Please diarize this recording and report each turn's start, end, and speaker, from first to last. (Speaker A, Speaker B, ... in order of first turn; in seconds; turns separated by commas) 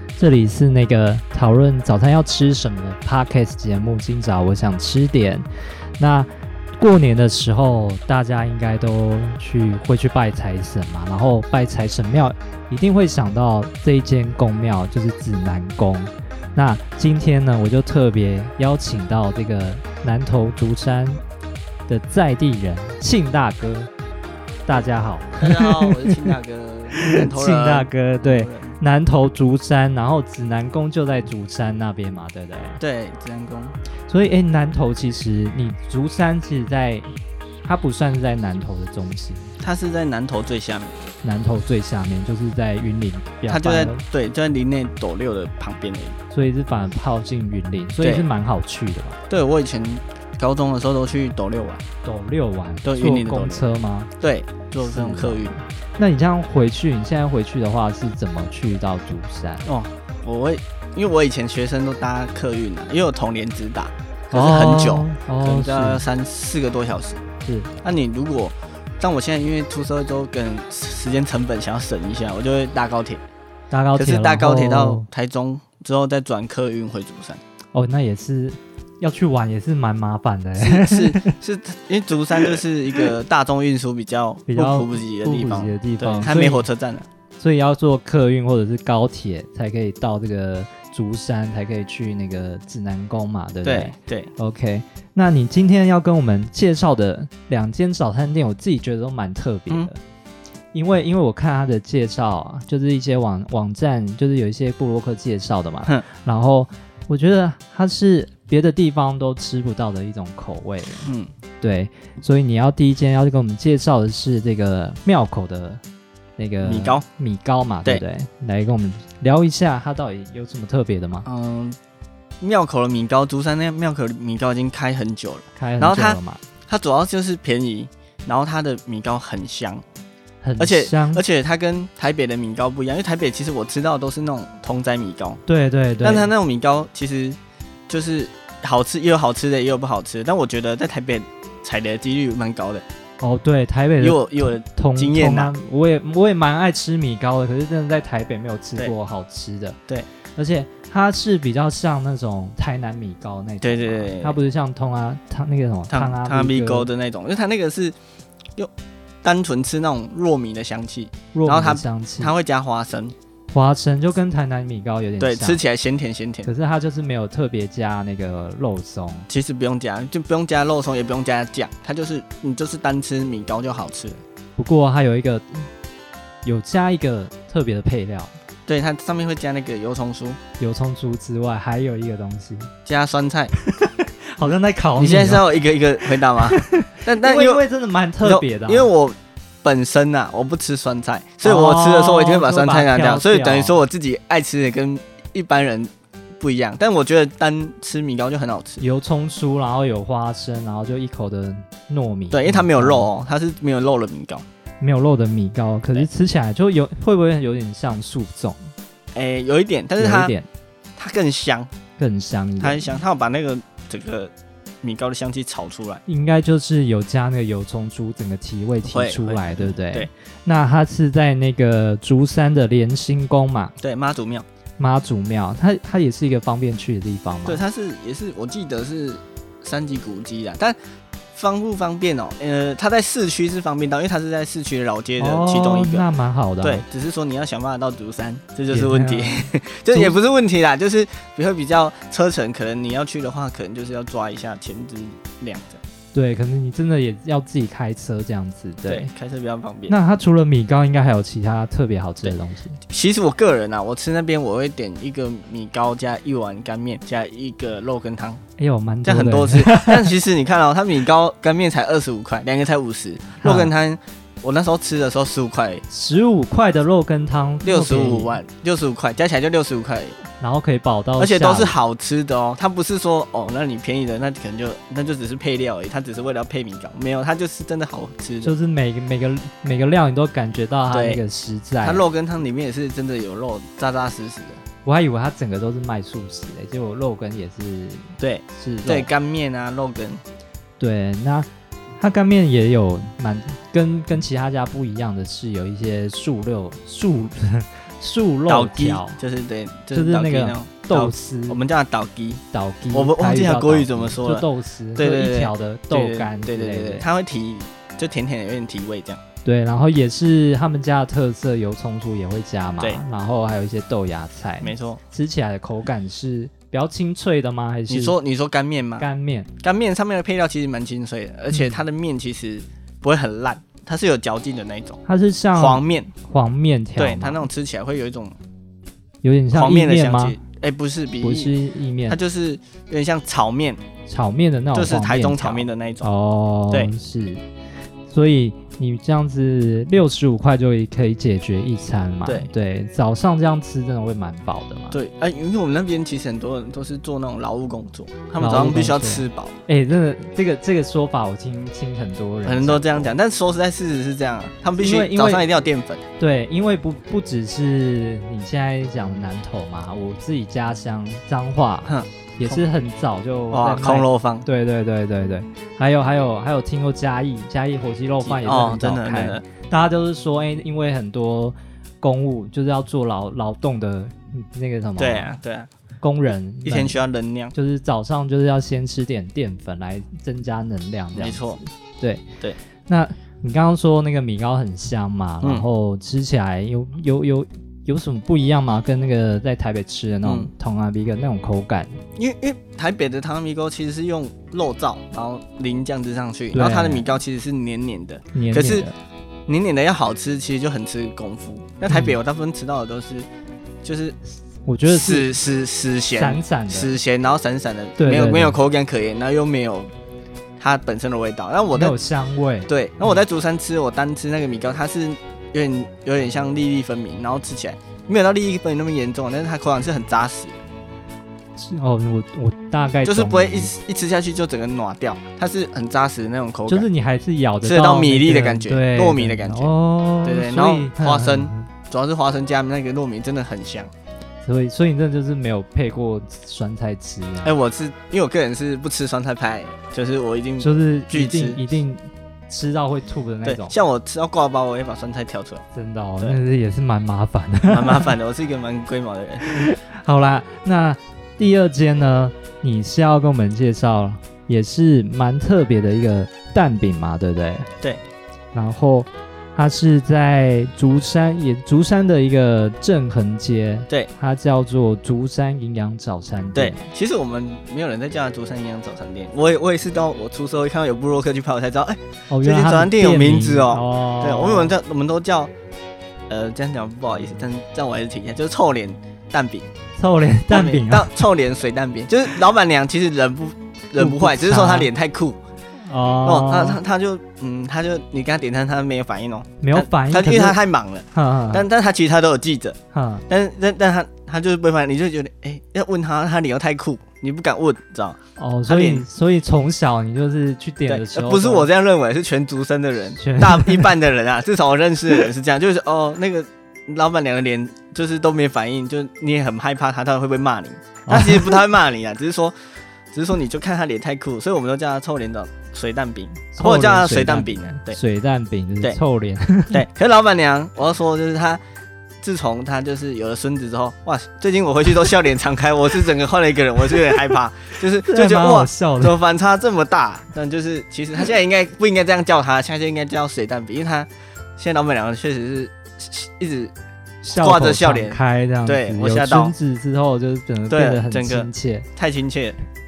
Speaker A: 0.2-5.5, Speaker A: 6.0-21.2, Speaker A: 21.9-23.9, Speaker A: 24.7-26.2, Speaker B: 25.4-28.8, Speaker A: 27.0-32.8, Speaker B: 32.8-33.8, Speaker A: 34.1-37.1, Speaker A: 37.6-39.5, Speaker B: 39.6-41.0, Speaker A: 41.2-44.0, Speaker B: 43.5-46.2, Speaker A: 46.3-49.2, Speaker B: 48.0-48.3, Speaker B: 49.3-51.8, Speaker A: 52.0-54.1, Speaker B: 52.8-53.7, Speaker B: 54.2-55.5, Speaker A: 54.8-59.7, Speaker B: 59.6-67.2, Speaker A: 64.3-66.0, Speaker A: 67.4-67.7, Speaker B: 67.8-73.2, Speaker A: 73.7-75.1, Speaker B: 73.9-77.4, Speaker A: 77.7-81.3, Speaker B: 80.6-87.1, Speaker A: 82.4-83.0, Speaker A: 84.5-86.7, Speaker A: 87.4-100.0, Speaker B: 93.7-94.3, Speaker A: 100.7-111.1, Speaker B: 111.0-111.3, Speaker A: 111.6-115.8, Speaker A: 116.4-121.3, Speaker B: 116.6-117.0, Speaker B: 121.2-121.8, Speaker B: 122.4-129.8, Speaker A: 125.6-126.4, Speaker A: 130.4-131.2, Speaker B: 130.6-135.4, Speaker A: 135.5-136.3, Speaker B: 136.0-137.4, Speaker B: 137.9-142.8, Speaker A: 143.2-149.8, Speaker B: 144.0-145.5, Speaker A: 150.4-156.9, Speaker B: 153.6-154.4, Speaker B: 155.9-158.0, Speaker B: 159.2-163.1, Speaker A: 161.3-162.3, Speaker A: 163.5-165.6, Speaker B: 165.2-166.5, Speaker A: 166.4-169.3, Speaker B: 169.3-174.2, Speaker A: 174.6-175.7, Speaker A: 176.4-178.3, Speaker B: 178.7-180.4, Speaker A: 180.6-182.7, Speaker B: 182.9-183.5, Speaker A: 183.7-185.5, Speaker B: 185.0-187.7, Speaker A: 186.4-188.9, Speaker B: 188.2-198.8, Speaker A: 191.4-193.8, Speaker A: 198.8-203.1, Speaker B: 202.3-204.4, Speaker A: 204.8-208.7, Speaker B: 209.1-210.3, Speaker A: 210.0-210.5, Speaker B: 211.0-211.7, Speaker A: 212.0-212.9, Speaker B: 212.6-216.0, Speaker A: 216.1-223.7, Speaker B: 218.9-220.1, Speaker B: 223.8-224.5, Speaker A: 224.8-227.6, Speaker B: 227.5-230.8, Speaker B: 231.3-236.1, Speaker A: 235.2-236.8, Speaker B: 236.6-245.8, Speaker A: 238.7-240.1, Speaker A: 246.1-249.1, Speaker B: 248.9-250.0, Speaker A: 249.9-252.8, Speaker B: 252.9-258.4, Speaker A: 258.6-260.1, Speaker B: 259.0-265.8, Speaker A: 263.4-263.7, Speaker A: 265.9-268.4, Speaker B: 267.6-270.2, Speaker A: 270.4-271.8, Speaker B: 271.2-278.5, Speaker A: 278.4-282.1, Speaker B: 280.9-281.2, Speaker B: 281.8-284.6, Speaker A: 284.9-289.1, Speaker B: 288.2-290.2, Speaker A: 290.8-299.2, Speaker B: 298.5-302.4, Speaker A: 299.9-301.6, Speaker A: 302.5-307.1, Speaker B: 302.9-309.2, Speaker A: 309.4-318.2, Speaker B: 314.6-315.0, Speaker B: 317.9-319.1, Speaker A: 319.0-319.5, Speaker B: 319.6-325.0, Speaker A: 321.5-321.8, Speaker A: 325.1-327.4, Speaker B: 325.6-326.1, Speaker B: 327.0-328.4, Speaker A: 329.2-330.4, Speaker B: 329.5-331.5, Speaker A: 331.2-332.2, Speaker B: 332.1-333.8, Speaker A: 334.1-337.4, Speaker B: 334.7-336.1, Speaker A: 338.1-345.0, Speaker B: 342.2-342.5, Speaker B: 344.9-349.6, Speaker A: 348.4-353.2, Speaker B: 352.4-356.0, Speaker A: 354.8-355.5, Speaker A: 356.2-375.4, Speaker B: 361.9-362.6, Speaker B: 363.5-364.5, Speaker B: 368.2-369.4, Speaker B: 375.0-375.7, Speaker A: 376.0-377.0, Speaker B: 376.6-377.5, Speaker A: 377.5-382.3, Speaker B: 381.1-381.6, Speaker A: 382.9-392.0, Speaker B: 390.2-390.5, Speaker B: 392.2-398.9, Speaker A: 396.5-397.1, Speaker A: 398.3-399.0, Speaker B: 399.5-403.3, Speaker A: 401.9-402.2, Speaker B: 403.8-404.2, Speaker A: 404.6-405.4, Speaker B: 404.9-409.9, Speaker A: 406.1-407.0, Speaker A: 408.0-408.6, Speaker B: 410.6-412.0, Speaker A: 411.7-412.7, Speaker B: 412.7-420.6, Speaker A: 421.6-423.7, Speaker B: 423.0-426.9, Speaker A: 426.7-431.7, Speaker B: 427.6-429.7, Speaker B: 430.2-433.9, Speaker A: 434.4-437.6, Speaker B: 437.4-441.6, Speaker A: 440.6-443.8, Speaker B: 443.4-445.6, Speaker A: 445.7-448.1, Speaker B: 447.7-449.7, Speaker A: 449.5-457.7, Speaker A: 458.5-466.9, Speaker B: 466.6-475.5, Speaker A: 472.3-474.8, Speaker B: 476.3-479.7, Speaker A: 480.0-481.2, Speaker B: 480.5-485.4, Speaker A: 484.0-484.9, Speaker A: 485.8-486.8, Speaker B: 486.2-499.1, Speaker A: 489.6-490.6, Speaker A: 491.1-491.7, Speaker A: 492.9-493.2, Speaker A: 498.4-501.7, Speaker B: 500.9-512.6, Speaker A: 503.2-503.9, Speaker A: 511.1-511.6, Speaker B: 513.1-518.0, Speaker A: 516.5-519.9, Speaker B: 519.7-521.6, Speaker B: 522.2-536.7, Speaker A: 527.8-529.2, Speaker A: 537.2-541.9, Speaker B: 537.4-539.5, Speaker B: 540.7-542.6